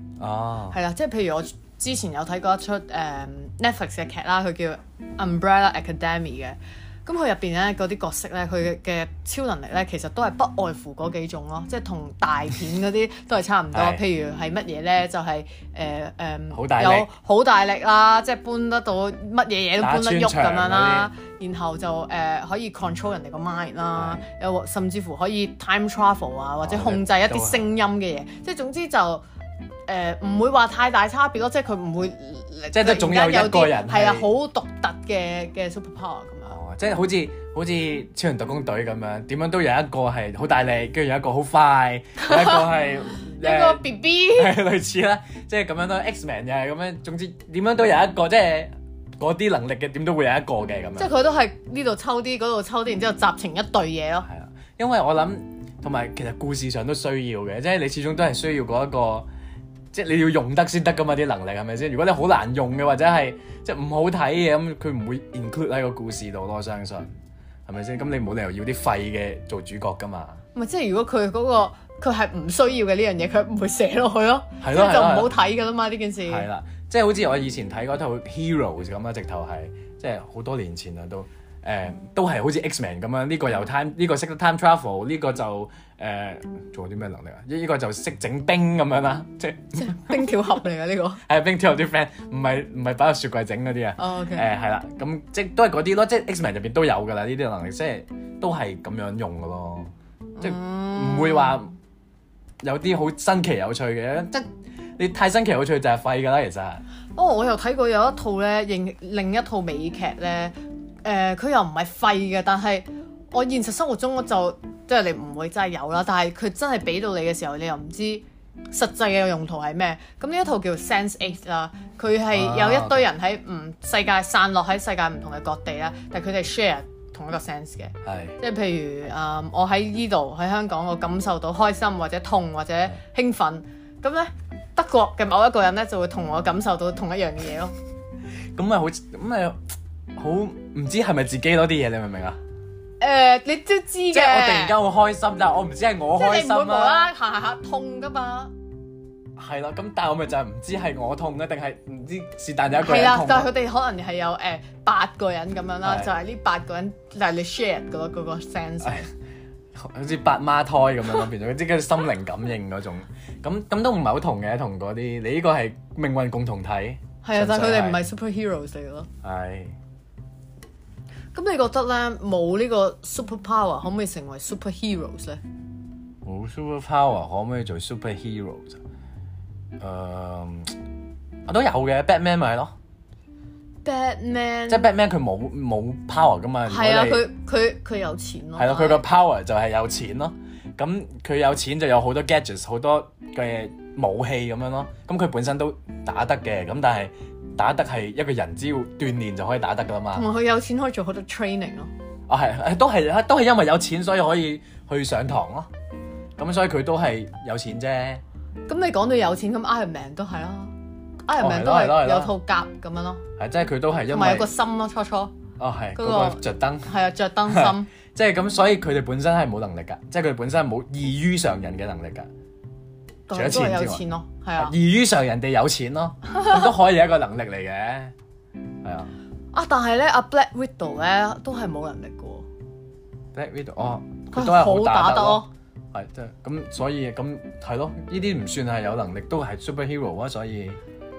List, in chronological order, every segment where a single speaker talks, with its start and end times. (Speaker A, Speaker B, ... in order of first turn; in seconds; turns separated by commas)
Speaker A: 0.2-0.8, Speaker B: 0.7-29.2, Speaker A: 13.7-14.0, Speaker A: 16.5-17.1, Speaker A: 19.8-21.1, Speaker A: 23.9-24.2, Speaker A: 26.6-27.6, Speaker B: 29.9-36.6, Speaker A: 32.7-34.3, Speaker A: 36.5-51.1, Speaker B: 42.2-44.6, Speaker B: 51.0-54.3, Speaker A: 54.3-59.3, Speaker A: 59.9-67.1, Speaker A: 67.7-70.4, Speaker B: 70.5-76.5, Speaker A: 74.6-75.3, Speaker A: 76.3-90.2, Speaker B: 89.8-91.2, Speaker A: 91.3-101.7, Speaker B: 94.0-94.5, Speaker B: 100.4-101.6, Speaker A: 102.6-104.5, Speaker A: 105.0-106.8, Speaker B: 107.2-137.7, Speaker A: 122.3-123.1, Speaker A: 128.1-128.4, Speaker A: 138.6-139.6, Speaker A: 140.2-142.4, Speaker B: 143.0-144.8, Speaker A: 144.1-147.1, Speaker B: 146.1-148.5, Speaker A: 149.4-153.5, Speaker B: 152.8-159.1, Speaker A: 155.8-156.1, Speaker A: 159.8-168.0, Speaker B: 167.2-169.1, Speaker A: 169.2-169.8, Speaker B: 171.3-175.4, Speaker A: 176.2-178.8, Speaker A: 179.8-180.8, Speaker A: 181.5-182.7, Speaker B: 183.8-184.9, Speaker A: 184.7-187.2, Speaker B: 186.7-189.0, Speaker A: 188.6-200.3, Speaker B: 200.1-201.9, Speaker A: 202.3-205.7, Speaker A: 206.4-208.2, Speaker B: 208.7-210.7, Speaker B: 211.3-213.2, Speaker A: 211.4-212.3, Speaker A: 213.4-214.5, Speaker B: 214.1-215.3, Speaker A: 215.6-216.9, Speaker B: 216.0-217.9, Speaker A: 217.5-222.3, Speaker B: 223.3-224.7, Speaker A: 223.3-224.0, Speaker A: 224.6-228.1, Speaker A: 228.8-229.1, Speaker B: 229.5-232.5, Speaker A: 233.3-240.8, Speaker B: 234.3-235.5